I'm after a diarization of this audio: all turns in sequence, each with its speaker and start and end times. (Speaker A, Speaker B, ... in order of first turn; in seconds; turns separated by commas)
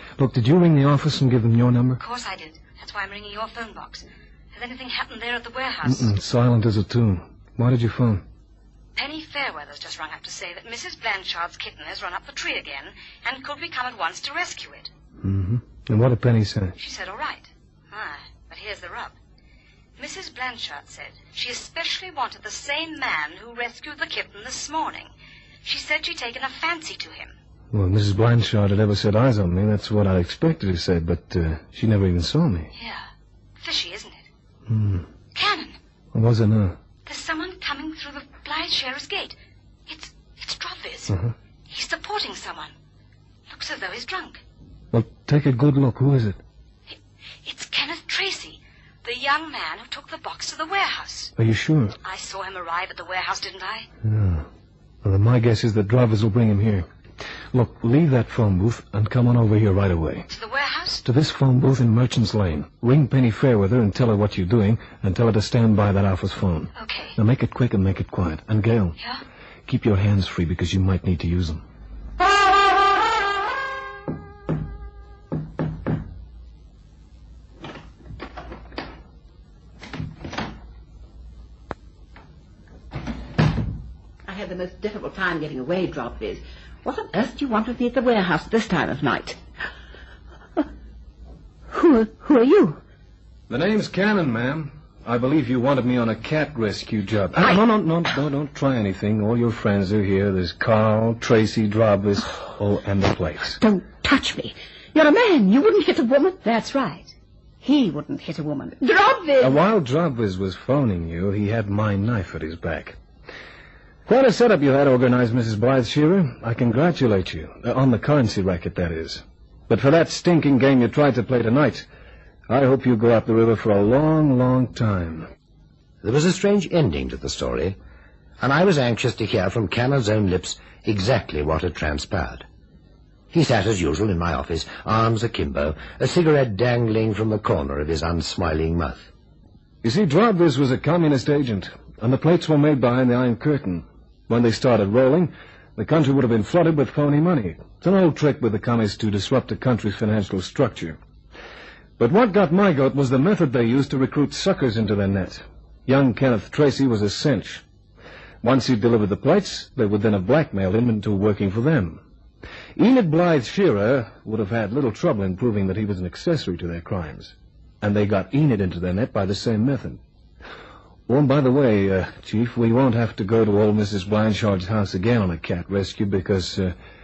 Speaker A: 0.2-2.0, Speaker B: 2.0-6.1, Speaker A: 5.8-8.2, Speaker B: 8.9-14.9, Speaker A: 15.2-16.7, Speaker B: 16.8-19.1, Speaker B: 20.0-25.1, Speaker B: 25.6-27.3, Speaker A: 27.7-32.7, Speaker B: 32.8-33.0, Speaker B: 33.6-34.2, Speaker A: 34.7-35.0, Speaker B: 35.3-35.8, Speaker A: 36.1-36.8, Speaker B: 37.0-39.4, Speaker B: 39.9-41.2, Speaker B: 41.7-42.7, Speaker B: 43.5-44.4, Speaker A: 44.9-46.4, Speaker B: 46.9-51.3, Speaker A: 51.4-52.0, Speaker B: 52.0-53.9, Speaker A: 54.0-54.5, Speaker A: 55.0-56.9, Speaker A: 57.5-60.3, Speaker B: 60.3-61.0, Speaker A: 61.0-69.0, Speaker B: 66.8-67.1, Speaker A: 69.7-71.6, Speaker C: 84.2-89.4, Speaker C: 91.7-92.8, Speaker A: 93.5-103.6, Speaker C: 103.6-106.4, Speaker D: 106.4-108.8, Speaker C: 108.8-109.6, Speaker A: 109.4-113.0, Speaker A: 114.0-121.8, Speaker A: 122.5-125.3, Speaker E: 126.0-127.8, Speaker E: 128.4-132.4, Speaker E: 133.3-139.1, Speaker A: 139.8-151.0, Speaker A: 152.0-157.6, Speaker A: 158.4-162.0, Speaker A: 162.8-170.0, Speaker A: 171.1-176.7